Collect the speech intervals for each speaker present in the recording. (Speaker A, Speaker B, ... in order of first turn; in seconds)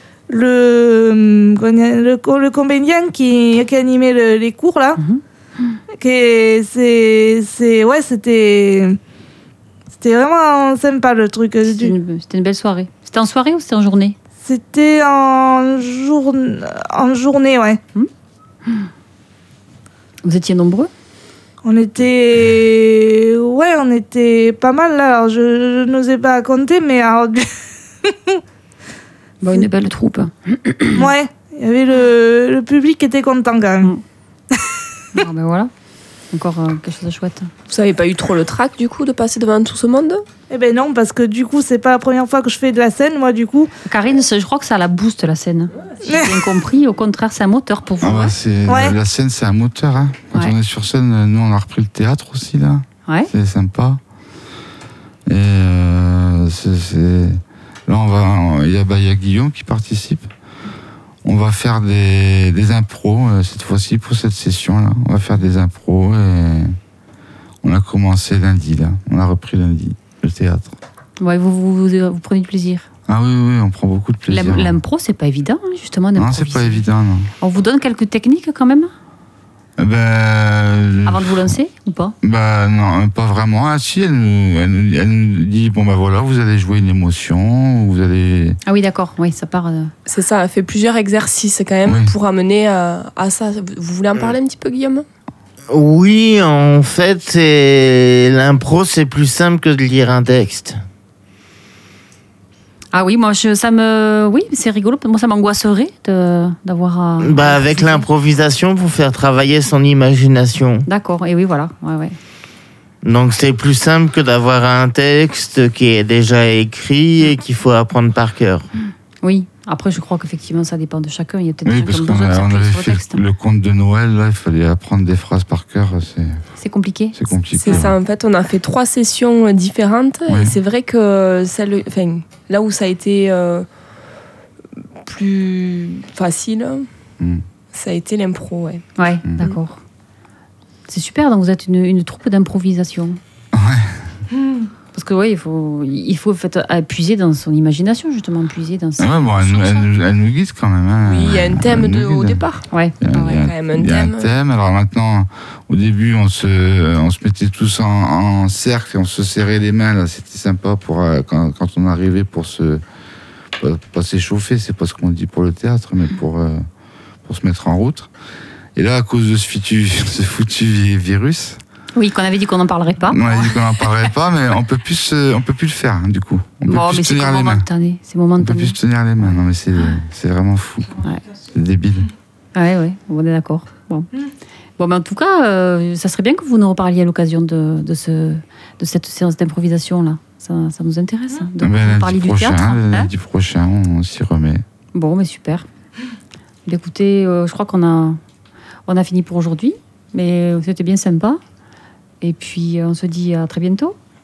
Speaker A: 0.3-5.0, 6.0-9.0, 10.0-11.9, 14.4-17.8, 21.6-28.4, 30.9-33.9, 40.5-43.7, 46.0-46.5, 48.7-49.0
Speaker B: 5.0-5.8, 11.6-14.2, 20.2-20.9, 29.4-31.1, 35.1-35.7, 36.3-37.5, 43.9-48.4, 71.2-72.9, 74.3-76.8, 77.4-78.9, 81.1-82.2, 88.7-89.9, 102.9-108.1, 110.9-112.2, 119.2-123.2, 126.6-128.0, 139.0-139.8, 140.9-143.2, 144.9-149.9, 152.7-153.4, 171.9-174.1, 176.7-180.0, 182.6-184.1, 184.8-193.1, 194.9-195.7, 196.7-198.2, 198.9-201.4, 202.2-204.0
Speaker C: 37.7-40.2, 90.1-95.0, 127.6-133.7, 135.0-136.9, 137.7-138.8, 151.0-152.7, 153.2-154.3
Speaker D: 48.0-54.0, 55.3-60.3, 61.2-66.8, 67.6-70.8, 73.1-74.8, 76.2-77.3, 79.8-81.5, 82.2-88.6, 91.9-92.1, 121.6-126.5, 127.1-128.0, 130.3-130.6, 139.2-139.6, 143.5-144.0, 149.0-152.4, 153.0-162.8, 163.6-166.7, 167.2-168.1, 168.8-171.6, 173.1-177.7, 178.4-182.1, 191.6-194.6
Speaker E: 95.7-100.8, 107.2-110.8, 113.0-118.7